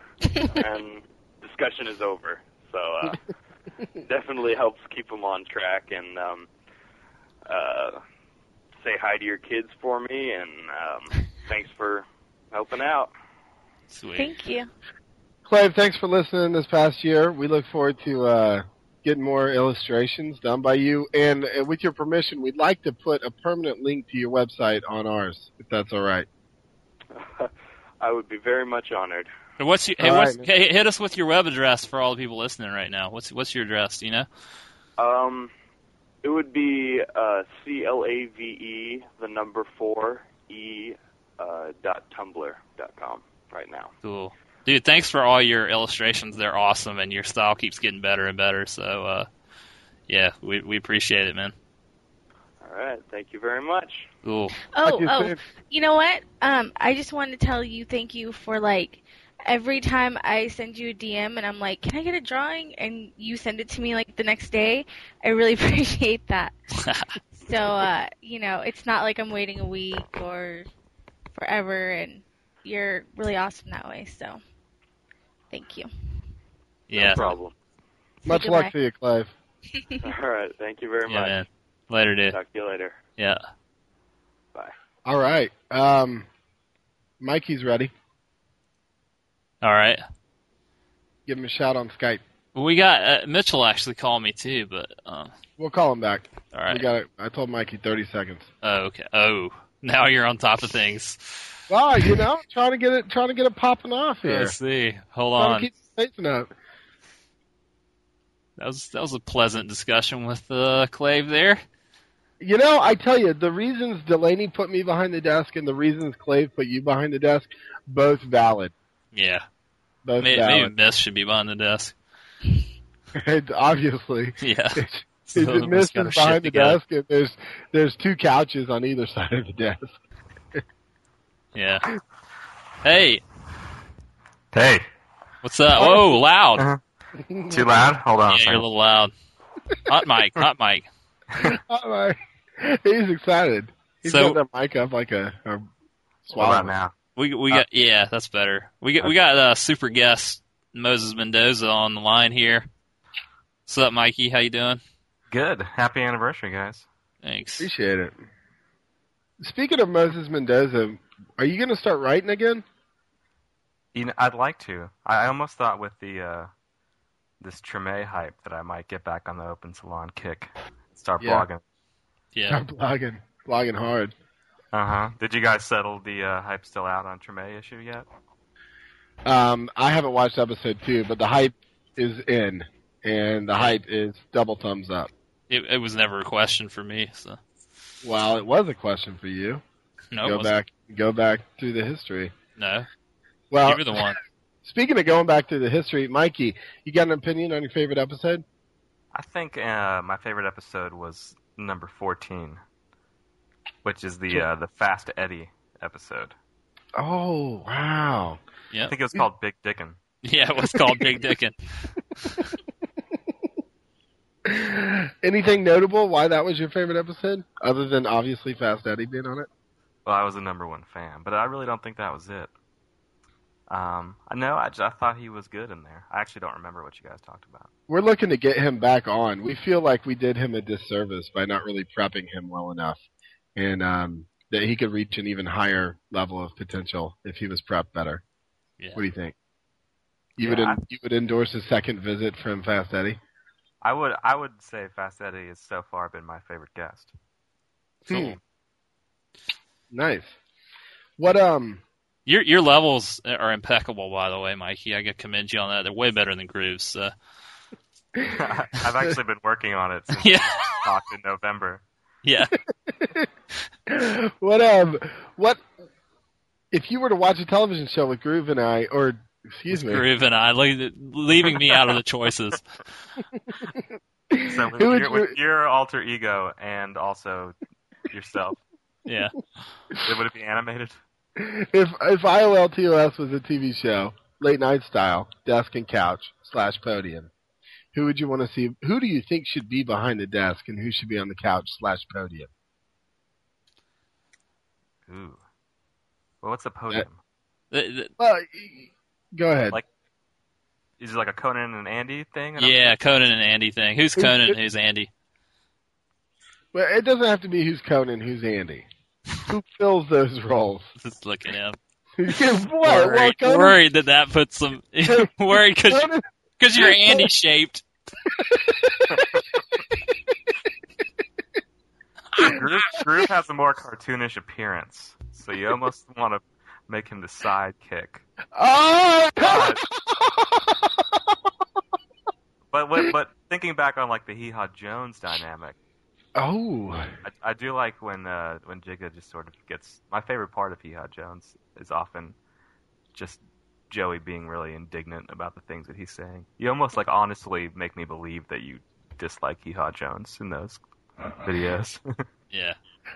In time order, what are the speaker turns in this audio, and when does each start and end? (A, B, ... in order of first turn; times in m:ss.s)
0:00.5-0:03.2 A
0:04.0-0:06.5 A
0:07.5-0:08.0 A
0:08.8-0:13.1 A
0:13.9-0:14.3 B
0:14.2-0:14.7 C
0:15.4-0:26.3 D
0:27.1-0:29.3 A
0:29.6-0:34.3 B
0:30.0-0:30.4 D
0:35.0-0:35.5 A
0:36.2-0:43.9 A
0:44.0-0:49.3 B
0:50.1-0:51.5 B
0:52.6-0:54.1 A
0:54.2-0:54.5 B
0:54.7-1:06.5 C
0:54.8-0:55.4 D
1:07.4-1:10.7 C
1:11.3-1:14.4 C
1:15.5-1:15.9 C
1:16.9-1:17.3 B
1:16.9-1:17.5 A
1:18.2-1:18.7 C
1:18.2-1:19.3 D
1:20.0-1:21.4 A
1:21.1-1:22.4 B
1:22.3-1:23.0 A
1:25.0-1:26.2 D
1:27.2-1:27.9 D
1:29.6-1:30.0 B
1:31.3-1:32.2 D
1:32.5-1:35.3 B
1:35.6-1:38.5 D
1:36.5-1:36.8 B
1:38.6-1:41.5 B
1:41.7-1:44.6 D
1:44.2-1:45.7 B
1:45.4-1:46.5 D
1:48.6-1:51.6 B
1:52.4-1:58.7 D
1:59.1-1:59.4 B
2:00.0-2:00.7 D
2:00.2-2:01.9 B
2:03.1-2:10.0 D
2:04.4-2:06.8 B
2:11.5-2:11.9 B
2:12.8-2:13.2 B
2:14.5-2:14.9 E
2:15.4-2:16.6 B
2:15.8-2:16.2 D
2:17.2-2:17.7 D
2:17.5-2:18.7 E
2:18.3-2:19.1 B
2:19.9-2:20.8 B
2:21.4-2:25.7 D
2:24.0-2:24.4 B
2:26.2-2:26.8 D
2:26.3-2:26.9 E
2:27.2-2:32.7 B
2:33.7-2:34.8 B
2:35.3-2:36.8 E
2:37.2-2:37.7 B
2:37.6-2:38.2 D
2:39.4-2:42.6 D
2:43.9-2:46.5 E
2:47.4-2:51.6 E
2:51.2-2:51.4 D
2:52.3-2:52.6 B
2:52.5-2:54.1 D
2:54.7-2:58.1 E
2:59.2-3:05.1 D
3:05.5-3:07.4 B
3:08.0-3:09.6 D
3:10.1-3:10.5 B
3:10.2-3:12.3 D
3:12.6-3:12.9 B
3:13.5-3:14.1 D
3:13.6-3:14.2 B
3:14.6-3:18.4 D
3:19.1-3:22.6 E
3:23.8-3:26.4 E
3:27.0-3:28.4 D
3:28.9-3:30.0 E
3:30.2-3:32.4 B
3:30.7-3:31.0 D
3:34.4-3:39.5 D
3:40.0-3:42.5 E
3:43.7-3:47.7 E
3:47.9-3:53.0 D
3:53.6-3:58.2 D
3:58.9-3:59.3 D
4:00.4-4:03.2 D
4:00.4-4:00.8 E
4:03.8-4:07.1 E
4:08.1-4:08.4 D
4:09.9-4:10.3 D
4:11.2-4:11.8 D
4:12.2-4:17.1 B
4:18.3-4:21.8 E
4:20.2-4:20.8 B
4:22.2-4:22.6 B
4:22.9-4:23.3 D
4:23.9-4:25.6 D
4:26.7-4:30.0 D
4:29.7-4:32.6 B
4:33.3-4:33.7 D
4:34.3-4:35.4 D
4:34.4-4:37.6 E
4:38.1-4:38.6 E
4:39.0-4:39.4 B
4:40.0-4:41.0 E
4:41.4-4:47.3 D
4:47.9-4:52.5 D
4:55.1-4:55.4 E
4:56.4-4:57.2 E
4:57.7-4:58.1 B
4:58.2-4:59.8 D
5:01.0-5:02.8 E
5:02.6-5:05.1 B
5:04.2-5:04.6 D
5:06.7-5:08.9 D
5:09.4-5:10.8 D
5:11.0-5:11.8 B
5:12.2-5:13.8 D
5:12.8-5:17.8 B
5:15.1-5:16.2 D
5:16.7-5:17.3 D
5:18.4-5:19.4 D
5:22.4-5:28.2 E
5:28.5-5:31.3 D
5:29.4-5:29.8 E
5:32.7-5:35.8 E
5:36.4-5:37.1 D
5:37.2-5:42.4 E
5:43.1-5:50.8 E
5:51.3-5:52.0 E
5:52.5-5:52.8 B